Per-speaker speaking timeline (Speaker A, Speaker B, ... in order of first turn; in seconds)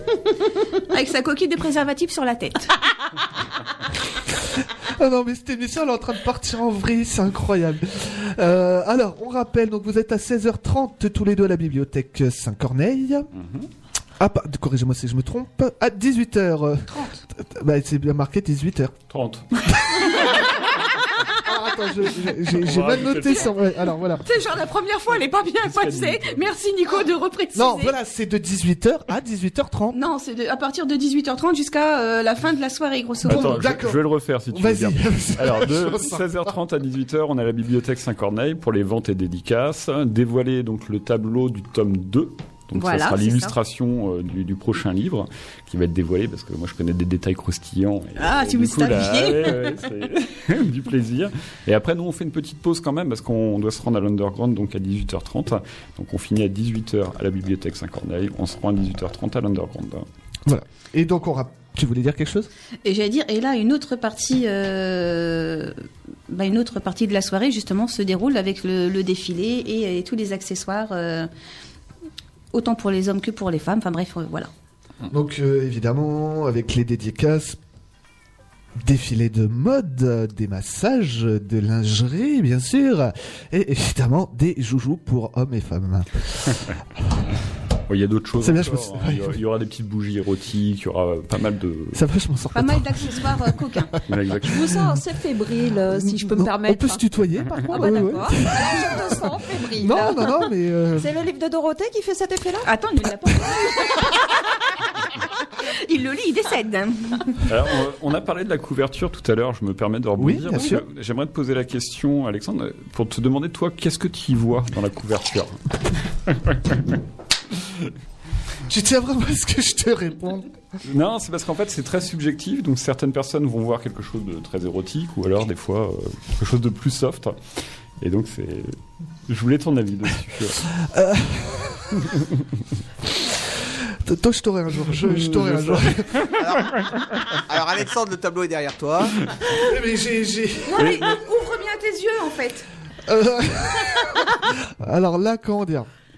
Speaker A: 0.9-2.8, 16.9-17.2, 24.2-27.9, 29.9-33.6, 42.8-43.5, 48.2-49.8, 62.9-71.3, 72.5-74.5, 92.5-93.9, 102.6-104.7, 105.6-107.4, 140.7-142.7
Speaker B: 4.7-13.3, 14.2-18.9, 21.4-24.2, 27.6-30.0, 33.2-36.5, 60.5-62.5, 75.1-77.6, 78.8-86.3, 88.4-89.4, 91.9-93.3, 95.8-101.1, 110.2-110.8, 118.6-120.5, 130.8-131.9, 133.3-136.1, 139.6-141.0, 143.1-145.9
Speaker C: 13.4-13.7, 19.1-19.7, 22.6-23.6, 25.7-26.4, 33.3-60.0, 87.9-92.0, 94.1-94.9, 107.5-115.6, 116.3-116.8, 120.8-127.3, 128.0-128.8, 129.3-130.6, 135.1-136.3
Speaker D: 94.5-97.0, 97.7-100.5, 101.1-102.7
Speaker E: 136.4-139.3